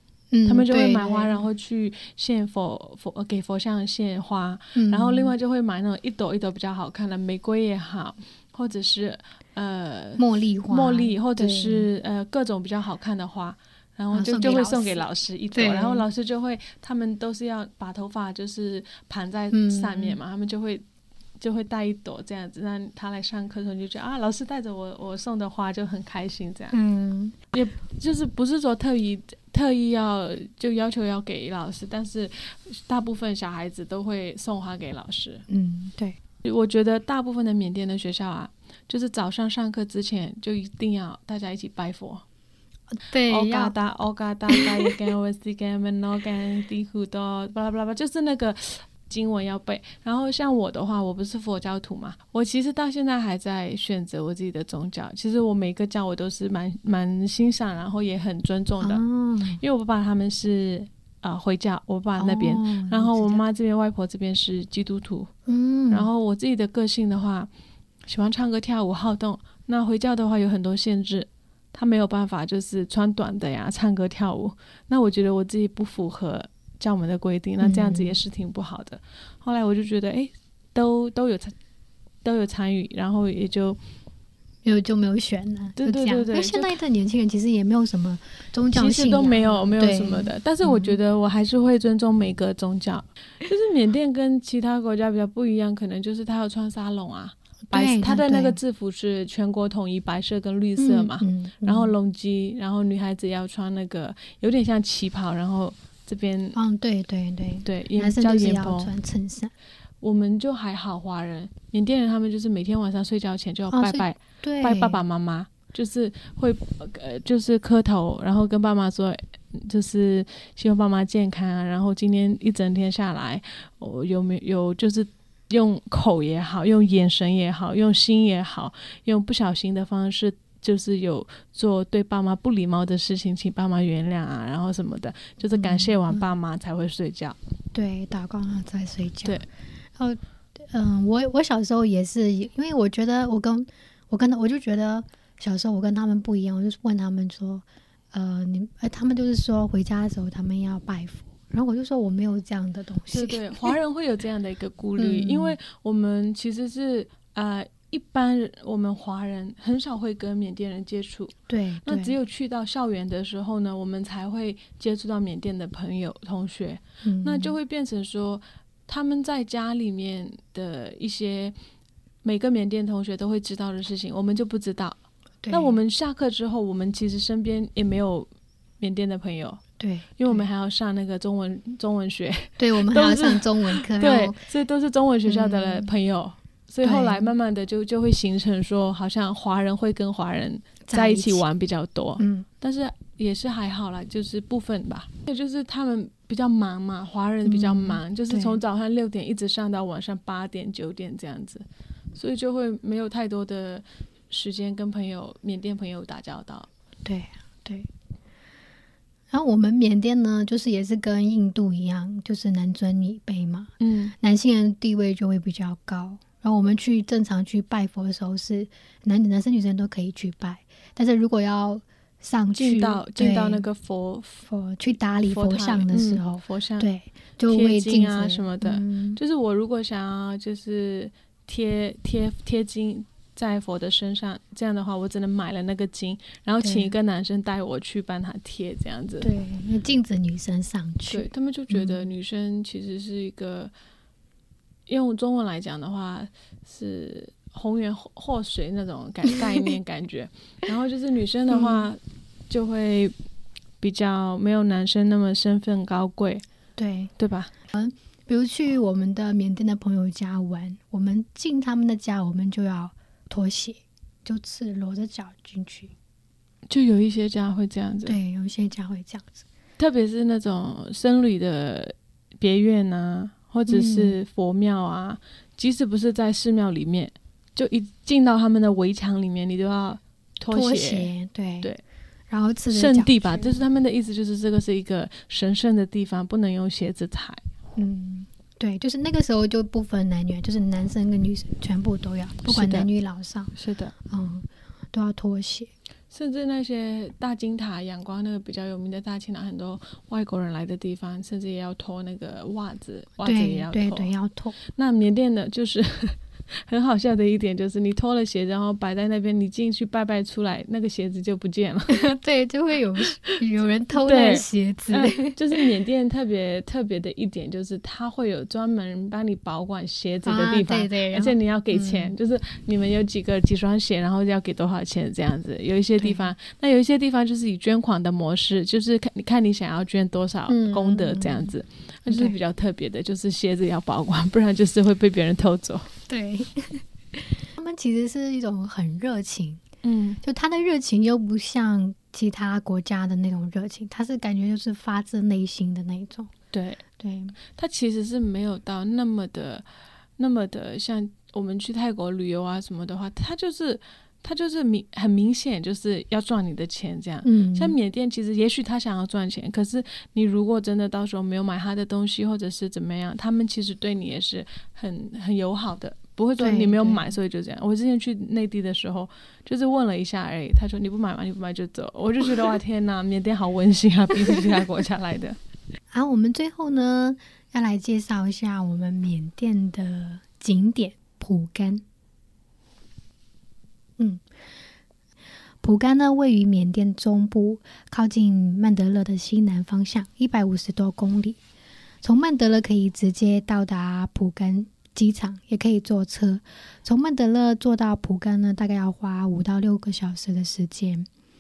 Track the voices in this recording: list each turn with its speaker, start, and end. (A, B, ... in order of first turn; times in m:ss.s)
0:00.3-0:01.4 A
0:00.4-0:20.8 B
0:04.8-0:05.3 A
0:10.2-0:11.9 A
0:14.1-0:16.1 A
0:19.5-0:20.2 A
0:21.4-0:26.8 B
0:26.7-0:27.4 A
0:27.5-0:35.4 B
0:35.5-0:36.2 A
0:36.4-0:42.2 B
0:43.0-0:43.7 A
0:43.3-0:59.0 B
0:44.5-0:44.9 A
0:58.8-0:59.6 A
0:59.6-1:05.3 B
1:02.2-1:03.4 A
1:05.5-1:06.1 A
1:05.9-1:07.5 B
1:08.1-1:21.5 B
1:17.6-1:18.2 A
1:22.2-1:23.8 B
1:24.6-1:31.0 A
1:25.8-1:26.7 B
1:28.7-1:46.6 B
1:37.7-1:38.6 A
1:40.8-1:42.0 A
1:46.6-1:49.5 A
1:47.6-1:48.9 B
1:50.0-2:17.4 B
1:53.7-1:55.0 A
2:15.5-2:16.2 A
2:17.7-2:19.4 A
2:20.0-2:33.8 A
2:33.1-2:41.3 B
2:35.0-2:35.6 A
2:41.5-2:42.2 A
2:41.8-2:51.6 B
2:47.0-2:47.6 A
2:52.2-2:55.0 B
2:55.4-2:55.8 A
2:55.5-2:58.3 B
2:58.8-2:59.6 B
2:59.8-3:00.5 A
3:00.2-3:26.7 B
3:02.6-3:04.4 A
3:05.3-3:05.9 A
3:06.8-3:07.3 A
3:10.9-3:11.4 A
3:12.2-3:12.5 A
3:17.4-3:18.6 A
3:27.0-3:27.9 A
3:29.3-3:43.6 A
3:33.8-3:34.1 B
3:42.6-3:44.4 B
3:44.4-3:49.2 A
3:45.3-3:46.9 B
3:47.5-3:59.3 B
3:56.6-3:56.9 A
3:59.2-4:02.1 A
4:01.1-4:03.7 B
4:04.9-4:13.1 B
4:11.5-4:11.9 A
4:13.8-4:16.4 B
4:16.8-4:17.1 A
4:17.2-4:17.5 B
4:17.7-4:25.9 A
4:26.7-4:28.2 B
4:28.1-4:29.4 A
4:29.8-4:41.1 B
4:33.7-4:34.2 A
4:40.5-4:41.7 A
4:42.3-4:43.6 A
4:42.7-4:47.4 B
4:47.8-4:53.5 A
4:52.4-4:52.9 B
4:53.6-4:53.9 B
4:54.1-4:55.7 A
4:56.1-5:04.1 B
5:03.2-5:04.6 A
5:04.8-5:12.1 B
5:11.9-5:15.4 A
5:14.0-5:35.9 B
5:20.2-5:22.2 A
5:26.0-5:26.3 A
5:30.5-5:31.5 A
5:32.1-5:32.4 A
5:36.1-5:39.6 A
5:39.8-5:40.2 B
5:40.2-5:46.3 A
5:46.5-5:46.8 B
5:47.0-5:47.4 A
5:47.6-5:49.7 B
5:50.2-6:15.4 B
5:57.2-5:57.8 A
6:06.4-6:07.1 A
6:15.9-6:21.8 A
6:24.0-6:24.2 A
6:25.6-6:31.4 A
6:32.0-6:41.1 A